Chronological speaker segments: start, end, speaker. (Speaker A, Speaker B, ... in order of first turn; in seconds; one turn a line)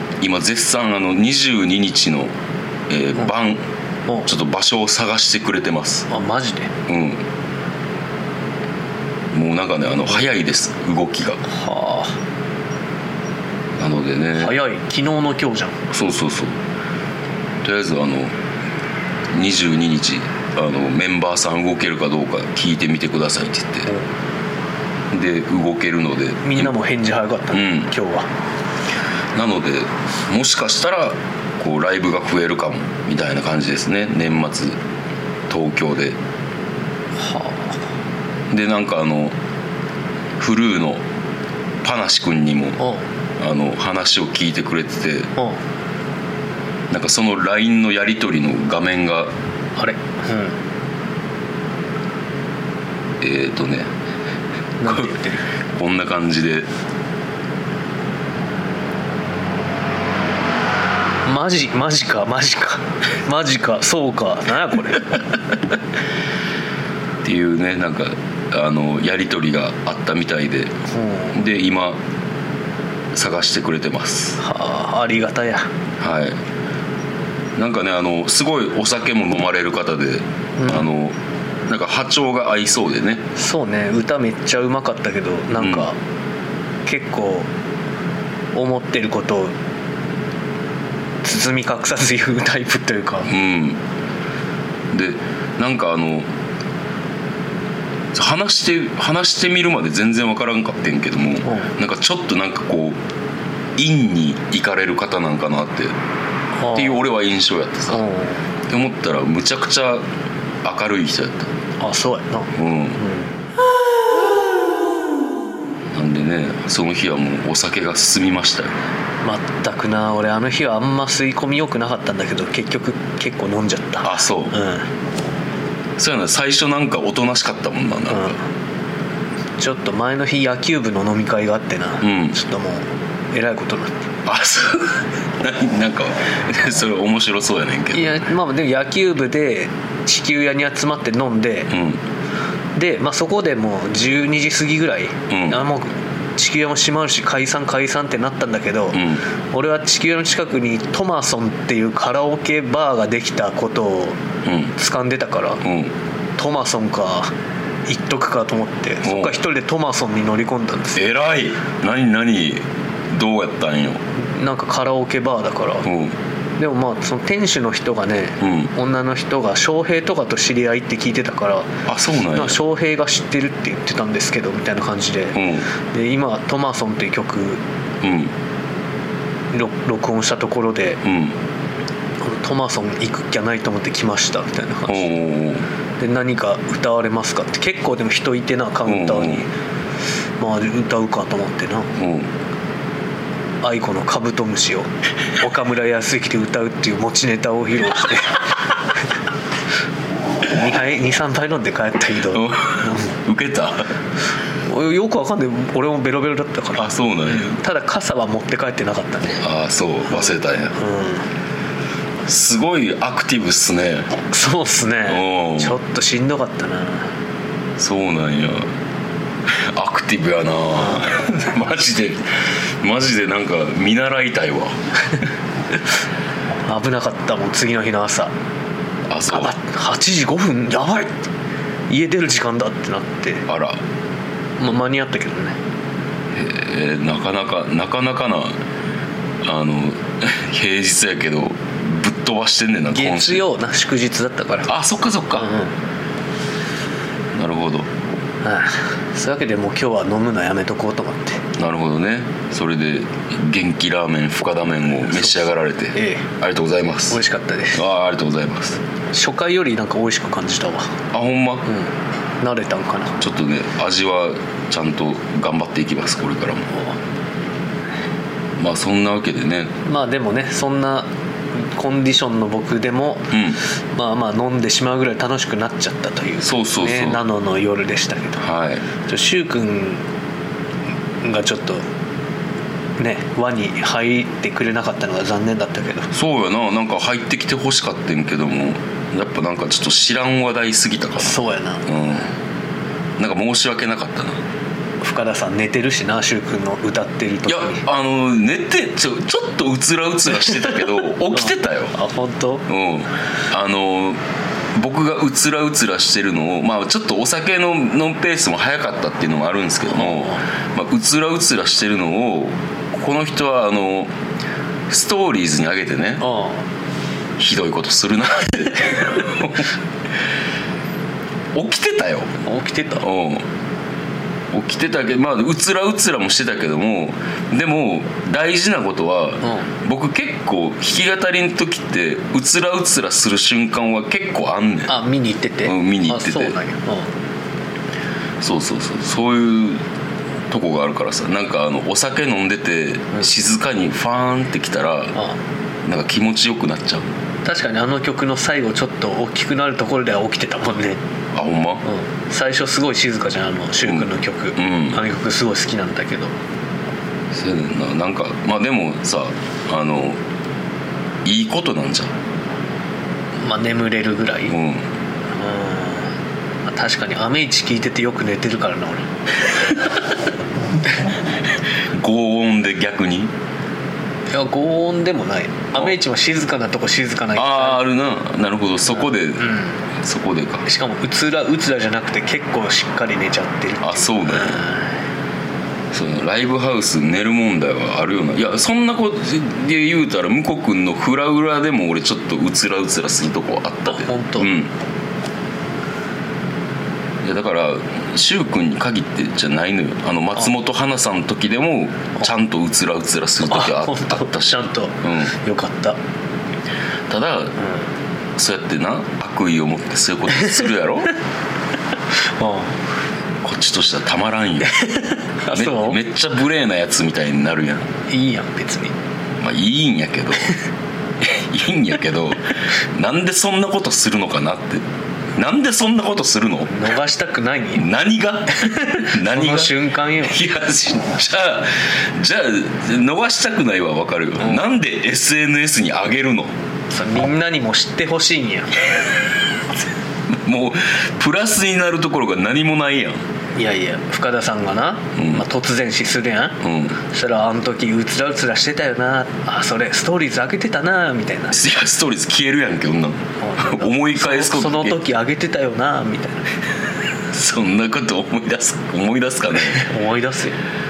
Speaker A: 0.2-2.3
Speaker A: 2.9-3.6
Speaker A: 4.2-6.0
Speaker B: 6.1-6.7
Speaker A: 6.9-7.2
Speaker A: 9.3-11.4
Speaker B: 11.4-12.2
Speaker A: 13.8-14.6
Speaker B: 14.3-15.8
Speaker A: 15.9-16.6
Speaker A: 17.6-18.3
Speaker A: 19.3-23.9
Speaker A: 25.1-26.7
Speaker B: 26.4-28.3
Speaker A: 27.5-27.9
Speaker A: 29.3-34.8
Speaker A: 35.5-36.2
Speaker B: 37.2-37.8
Speaker A: 38.5-39.4
Speaker A: 40.4-41.0
Speaker A: 41.8-42.8
Speaker B: 42.8-43.0
Speaker A: 43.4-45.3
Speaker A: 46.9-49.3
Speaker B: 49.8-50.6
Speaker A: 53.2-53.9
Speaker B: 54.8-55.4
Speaker A: 55.8-56.7
Speaker B: 61.2-65.2
Speaker A: 67.2-70.8
Speaker B: 70.9-71.3
Speaker A: 71.3-72.0
Speaker A: 73.1-74.4
Speaker B: 74.4-75.7
Speaker A: 76.0-76.4
Speaker A: 77.5-81.2
Speaker B: 80.6-80.8
Speaker A: 81.7-83.2
Speaker B: 83.3-86.0
Speaker A: 85.6-85.8
Speaker B: 86.8-87.5
Speaker B: 88.5-89.5
Speaker B: 91.2-93.3
Speaker A: 93.3-93.8
Speaker A: 94.9-96.3
Speaker A: 98.1-103.0
Speaker B: 101.4-101.7
Speaker A: 103.8-105.9
Speaker B: 106.5-107.0
Speaker A: 106.7-108.0
Speaker B: 107.9-108.4
Speaker A: 108.7-110.0
Speaker A: 110.6-111.5
Speaker B: 111.8-113.3
Speaker A: 112.5-113.0
Speaker A: 115.9-118.8
Speaker B: 119.2-124.8
Speaker A: 124.0-124.5
Speaker A: 126.0-128.3
Speaker B: 128.1-128.4
Speaker B: 129.6-134.1
Speaker A: 132.0-132.3
Speaker A: 134.2-138.1
Speaker B: 137.9-141.7
Speaker A: 141.7-142.0
Speaker B: 142.8-154.2
Speaker A: 145.3-145.6
Speaker A: 148.9-149.2
Speaker A: 154.4-154.7
Speaker B: 154.8-155.6
Speaker A: 155.6-155.9
Speaker B: 156.4-157.3
Speaker B: 157.9-161.0
Speaker A: 159.0-159.3
Speaker A: 160.9-164.0
Speaker B: 164.2-165.9
Speaker A: 165.8-166.1
Speaker B: 166.6-171.7
Speaker A: 168.4-168.7
Speaker A: 171.8-172.6
Speaker B: 172.3-177.6
Speaker A: 175.3-175.7
Speaker A: 178.0-178.3
Speaker B: 179.5-181.0
Speaker A: 181.0-181.3
Speaker B: 182.2-185.1
Speaker A: 184.9-185.6
Speaker B: 186.0-189.5
Speaker A: 188.9-189.4
Speaker B: 190.4-191.9
Speaker A: 191.9-192.3
Speaker B: 193.6-198.4
Speaker B: 200.4-203.1
Speaker A: 202.3-203.9
Speaker B: 204.6-209.4
Speaker A: 206.8-207.6
Speaker A: 209.4-210.8
Speaker B: 210.1-211.2
Speaker A: 212.2-214.1
Speaker B: 214.3-217.1
Speaker A: 215.1-215.8
Speaker A: 217.8-218.7
Speaker A: 219.5-224.8
Speaker B: 226.7-228.3
Speaker A: 229.1-229.5
Speaker B: 229.3-231.1
Speaker B: 231.9-233.4
Speaker A: 233.5-233.8
Speaker B: 234.6-235.6
Speaker A: 236.3-238.6
Speaker A: 239.4-243.4
Speaker B: 242.9-244.7
Speaker A: 244.7-245.5
Speaker B: 245.3-245.7
Speaker A: 247.3-247.9
Speaker B: 248.4-251.4
Speaker A: 251.6-257.2
Speaker B: 255.9-256.2
Speaker B: 257.1-257.8
Speaker A: 257.7-258.8
Speaker B: 259.1-260.9
Speaker A: 261.1-261.6
Speaker B: 262.4-263.2
Speaker A: 263.2-266.8
Speaker A: 268.6-269.7
Speaker B: 269.8-278.4
Speaker A: 273.3-273.6
Speaker A: 276.4-277.2
Speaker A: 278.4-278.8
Speaker B: 279.1-280.0
Speaker B: 281.2-281.8
Speaker B: 283.0-286.1
Speaker A: 286.1-292.3
Speaker B: 291.2-292.1
Speaker A: 293.2-294.4
Speaker B: 295.0-297.8
Speaker A: 297.5-301.9
Speaker B: 301.3-302.7
Speaker A: 302.7-304.2
Speaker A: 304.7-314.1
Speaker B: 309.9-310.4
Speaker A: 314.9-316.2
Speaker B: 316.2-316.6
Speaker A: 317.4-319.7
Speaker A: 321.5-322.3
Speaker B: 322.4-323.1
Speaker A: 323.0-323.4
Speaker A: 324.5-334.9
Speaker B: 329.4-329.7
Speaker B: 334.9-337.1
Speaker A: 335.6-336.6
Speaker A: 338.4-339.8
Speaker A: 340.5-345.1
Speaker A: 345.8-347.1
Speaker B: 347.4-351.0
Speaker A: 351.3-351.8
Speaker B: 351.8-356.3
Speaker A: 354.6-355.0
Speaker A: 357.3-360.2
Speaker A: 361.2-362.1
Speaker B: 363.4-364.6
Speaker A: 364.5-364.8
Speaker B: 365.3-366.1
Speaker B: 366.7-370.0
Speaker A: 371.9-373.3
Speaker B: 374.3-377.8
Speaker A: 377.3-380.6
Speaker B: 379.4-379.8
Speaker B: 380.6-384.9
Speaker A: 383.8-384.6
Speaker A: 385.9-394.7
Speaker B: 393.9-394.5
Speaker A: 397.2-405.3
Speaker B: 403.4-406.0
Speaker A: 407.1-407.6
Speaker A: 408.4-411.1
Speaker B: 412.2-412.8
Speaker A: 413.4-414.9
Speaker B: 414.6-416.0
Speaker A: 415.5-417.9
Speaker B: 418.1-418.9
Speaker A: 419.4-420.5
Speaker A: 421.2-426.8
Speaker B: 426.7-427.9
Speaker A: 427.8-436.5
Speaker B: 428.5-430.4
Speaker B: 436.9-438.9
Speaker A: 440.3-443.2
Speaker B: 443.6-451.6
Speaker A: 445.2-445.4
Speaker A: 446.6-446.9
Speaker A: 451.5-455.0
Speaker B: 453.4-456.5
Speaker A: 457.3-459.9
Speaker B: 459.6-460.6